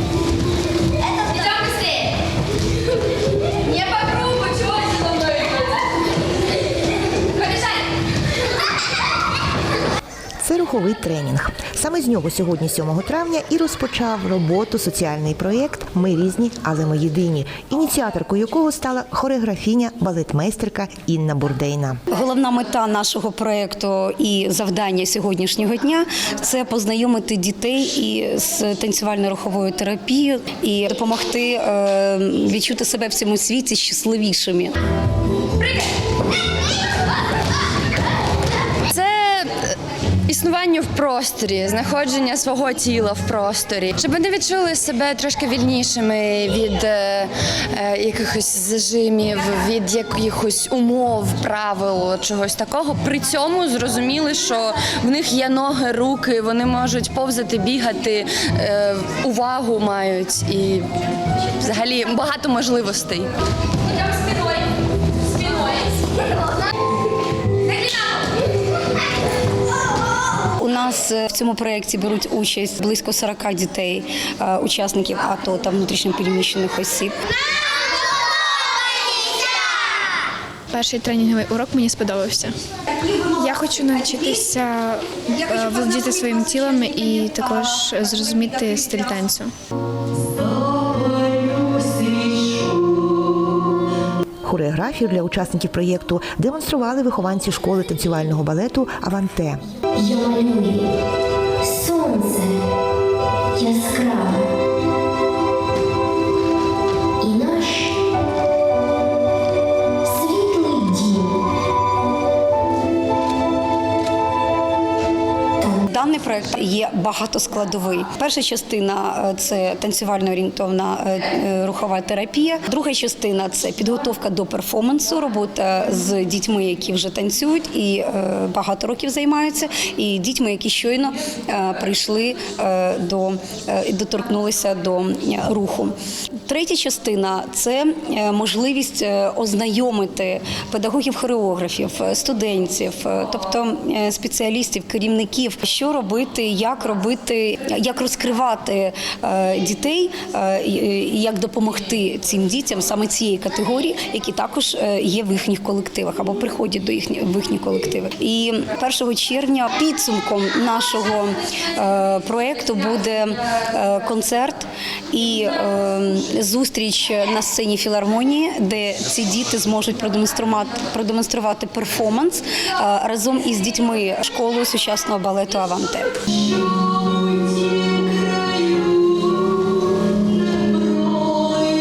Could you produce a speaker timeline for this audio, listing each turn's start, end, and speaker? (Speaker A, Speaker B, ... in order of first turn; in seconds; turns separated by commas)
Speaker A: 1.3-1.9, Speaker A: 3.7-5.6, Speaker B: 10.4-22.0, Speaker C: 22.1-34.8, Speaker A: 38.9-39.8, Speaker A: 40.3-63.3, Speaker C: 70.6-77.2, Speaker D: 80.7-82.5, Speaker D: 83.3-89.5, Speaker B: 94.4-99.6, Speaker E: 100.0-100.8, Speaker E: 101.6-102.6, Speaker E: 103.5-104.5, Speaker E: 107.2-107.9, Speaker E: 110.0-111.3, Speaker C: 115.7-135.9, Speaker C: 136.4-176.1